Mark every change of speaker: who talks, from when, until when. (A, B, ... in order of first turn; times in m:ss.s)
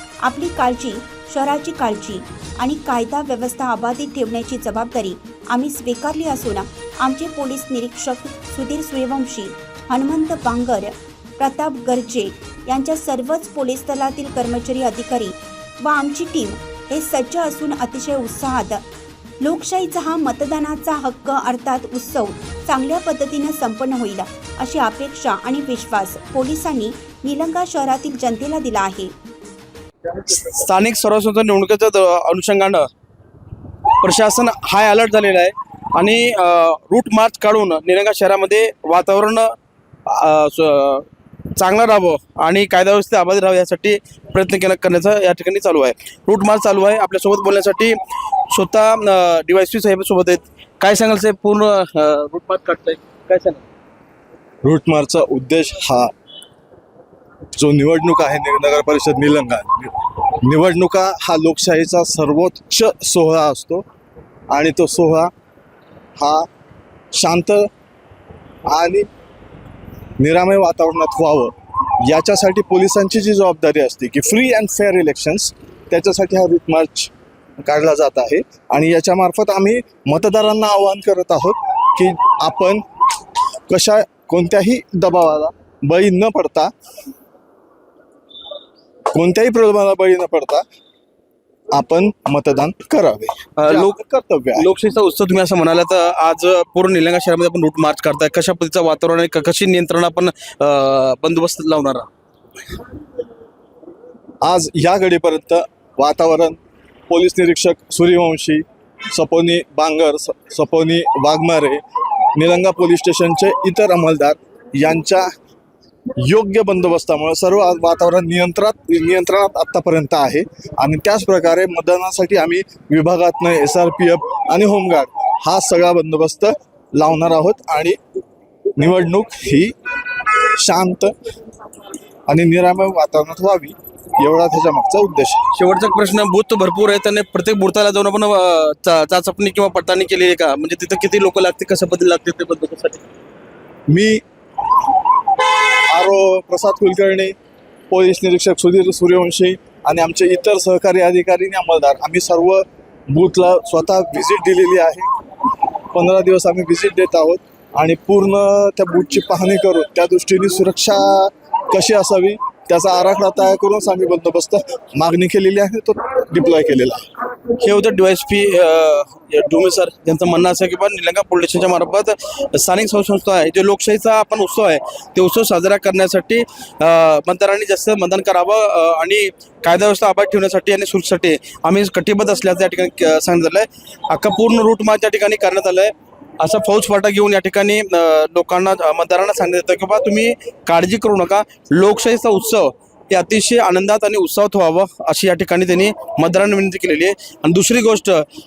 0:00.2-0:18.8 A
0:19.4-0:29.1 A
0:30.2-0:32.8 B
0:34.0-0:48.0 B
0:48.5-0:53.6 B
0:54.6-0:56.1 C
0:57.5-1:03.8 C
1:04.5-1:05.3 C
1:06.2-1:06.5 C
1:07.1-1:07.7 C
1:08.7-1:09.0 C
1:10.2-1:22.8 C
1:23.7-1:26.7 C
1:29.1-1:30.6 C
1:31.7-1:34.7 C
1:33.6-1:34.0 B
1:34.6-1:42.1 B
1:44.4-1:51.8 C
1:52.4-1:55.3 C
1:56.2-2:08.0 C
2:08.8-2:09.7 C
2:10.2-2:11.1 C
2:12.3-2:15.4 C
2:15.5-2:23.0 B
2:23.9-2:24.2 C
2:25.9-2:27.3 C
2:27.9-2:35.1 C
2:35.9-2:47.0 C
2:47.6-3:18.2 B